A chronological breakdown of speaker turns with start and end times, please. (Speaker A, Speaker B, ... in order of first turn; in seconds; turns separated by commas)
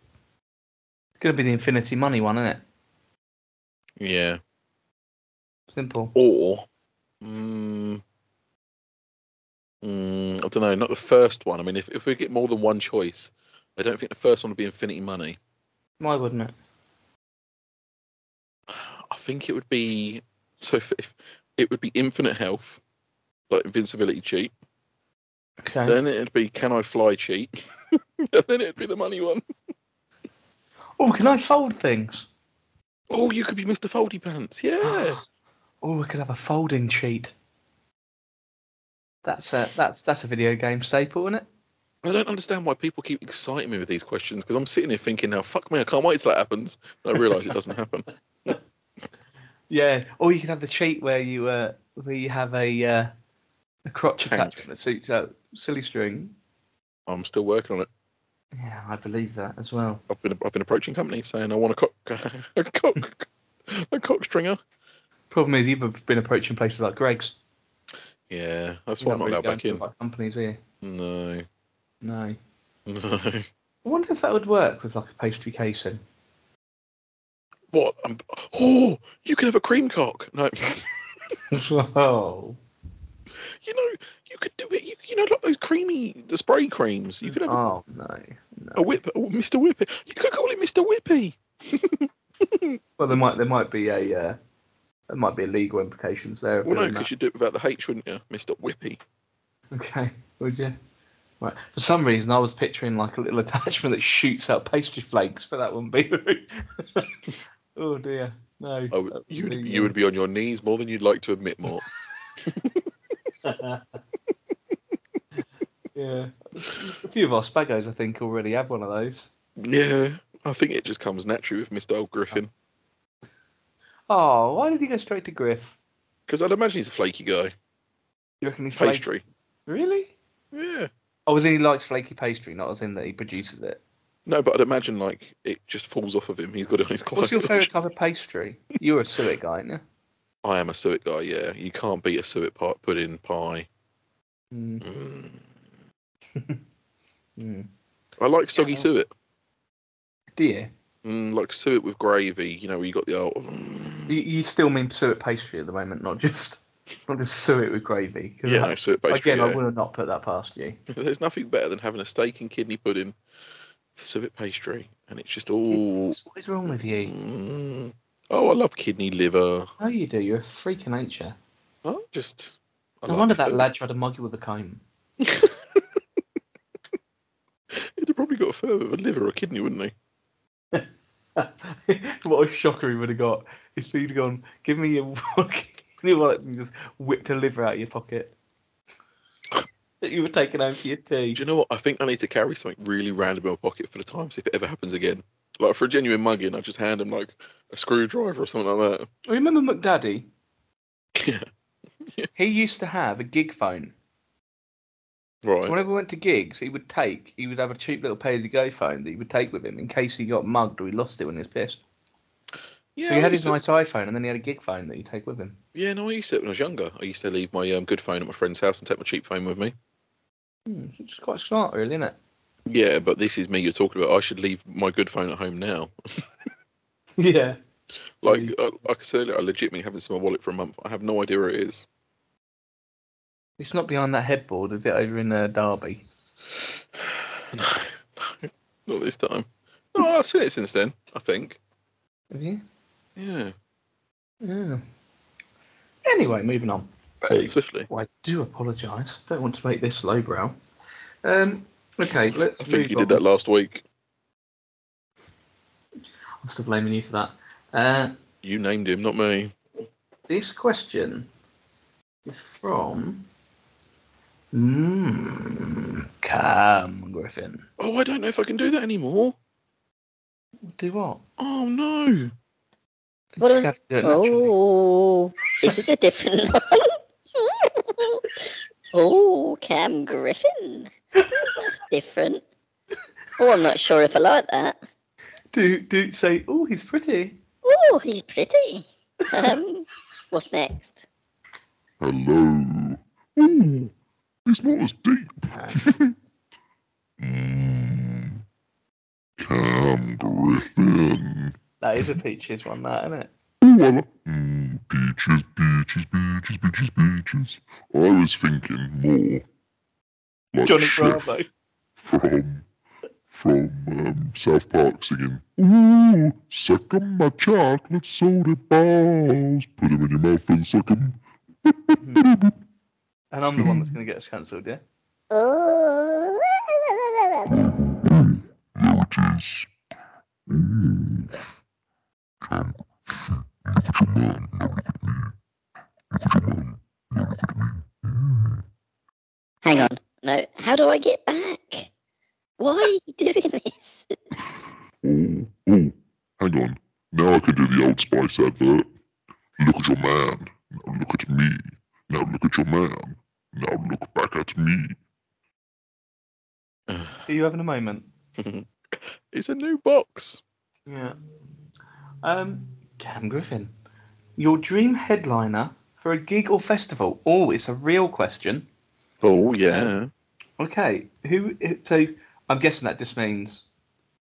Speaker A: 1.2-2.6, Speaker B: 4.0-4.4, Speaker A: 5.7-6.1, Speaker B: 6.2-6.7, Speaker B: 7.2-8.0, Speaker B: 9.8-15.4, Speaker A: 16.0-16.5, Speaker B: 18.7-22.8, Speaker B: 23.5-24.5, Speaker A: 25.6-26.0, Speaker B: 25.9-27.5, Speaker B: 28.2-29.4, Speaker A: 31.0-32.3, Speaker B: 33.1-35.2, Speaker A: 34.8-35.2, Speaker A: 35.8-37.3, Speaker A: 39.2-41.5, Speaker B: 42.0-48.6, Speaker A: 49.7-53.1, Speaker A: 53.9-56.3, Speaker B: 54.2-54.7, Speaker B: 57.1-57.9, Speaker A: 58.6-60.0, Speaker B: 60.1-64.6, Speaker A: 65.3-67.4, Speaker B: 68.3-69.8, Speaker A: 69.0-70.6, Speaker B: 70.8-71.5, Speaker A: 72.0-72.4, Speaker B: 72.9-73.5, Speaker A: 73.8-76.0, Speaker B: 77.7-81.0, Speaker A: 81.5-82.6, Speaker B: 83.5-87.6, Speaker A: 87.2-88.9, Speaker B: 88.8-92.8, Speaker A: 93.0-94.4, Speaker A: 95.1-97.1, Speaker B: 96.7-99.0, Speaker A: 99.7-100.8, Speaker A: 101.4-107.1, Speaker A: 107.8-109.9, Speaker B: 108.9-111.8, Speaker B: 112.5-112.8, Speaker A: 113.4-113.8, Speaker A: 116.0-119.3, Speaker B: 119.6-122.5, Speaker A: 124.1-125.8, Speaker B: 126.3-127.5, Speaker A: 128.4-129.1, Speaker B: 128.8-129.2, Speaker A: 129.7-130.1, Speaker B: 130.5-130.9, Speaker A: 131.3-133.8, Speaker B: 134.3-137.7, Speaker A: 137.2-139.8, Speaker B: 140.4-143.7, Speaker A: 144.5-144.8, Speaker B: 144.8-145.4, Speaker A: 147.4-147.7, Speaker B: 148.2-149.1, Speaker A: 148.6-148.9, Speaker A: 150.4-150.7, Speaker B: 151.0-154.2, Speaker A: 154.1-160.8, Speaker B: 158.4-159.6, Speaker B: 160.9-163.2, Speaker B: 164.0-166.2, Speaker A: 165.7-167.1, Speaker B: 167.0-169.7, Speaker A: 169.8-171.4, Speaker B: 171.8-173.7, Speaker A: 173.1-174.8, Speaker B: 175.2-175.8, Speaker B: 177.7-179.9, Speaker A: 180.7-188.3, Speaker A: 190.0-191.4, Speaker B: 191.3-199.1, Speaker A: 199.3-200.3, Speaker B: 201.2-201.5, Speaker B: 202.0-202.3, Speaker A: 202.4-203.9, Speaker B: 205.4-205.8, Speaker A: 205.7-211.8, Speaker B: 213.0-213.6, Speaker A: 213.1-215.6, Speaker B: 215.8-219.7, Speaker A: 220.7-222.2, Speaker B: 222.7-225.9, Speaker A: 227.2-227.6, Speaker B: 228.2-231.9, Speaker A: 228.2-228.6, Speaker A: 233.6-236.1, Speaker B: 237.0-241.6, Speaker A: 242.3-242.6, Speaker B: 243.2-243.5, Speaker A: 244.4-244.8, Speaker A: 246.1-250.6, Speaker B: 247.3-247.9, Speaker A: 251.2-253.2, Speaker B: 252.6-253.8, Speaker A: 256.4-258.1, Speaker B: 258.4-259.6, Speaker A: 260.3-261.3, Speaker A: 262.3-263.2, Speaker A: 264.5-267.7, Speaker B: 267.8-269.4, Speaker A: 270.7-271.2, Speaker B: 271.4-272.3, Speaker A: 273.4-274.5, Speaker C: 273.4-278.2, Speaker C: 278.9-282.4, Speaker C: 283.4-284.8, Speaker A: 285.5-287.4, Speaker C: 287.6-291.0, Speaker D: 292.0-293.9, Speaker D: 294.5-296.1, Speaker A: 295.5-295.8, Speaker D: 297.2-298.4, Speaker D: 299.4-302.1, Speaker A: 301.8-303.3, Speaker D: 303.6-309.4, Speaker D: 310.5-311.4, Speaker A: 310.6-311.5, Speaker D: 312.0-312.7, Speaker D: 313.3-322.5, Speaker A: 323.3-324.8, Speaker D: 323.6-323.9, Speaker C: 325.3-326.4, Speaker D: 327.5-329.7, Speaker D: 330.5-331.4, Speaker D: 332.4-332.8, Speaker D: 333.7-335.3, Speaker D: 336.1-338.5, Speaker C: 339.6-341.9, Speaker C: 342.6-344.1, Speaker D: 345.0-348.9, Speaker D: 349.6-355.0, Speaker B: 356.9-357.2, Speaker A: 357.3-358.1, Speaker B: 358.4-360.4, Speaker A: 360.9-361.2, Speaker A: 362.2-363.7, Speaker A: 364.4-368.7, Speaker B: 369.2-370.1, Speaker A: 370.6-373.7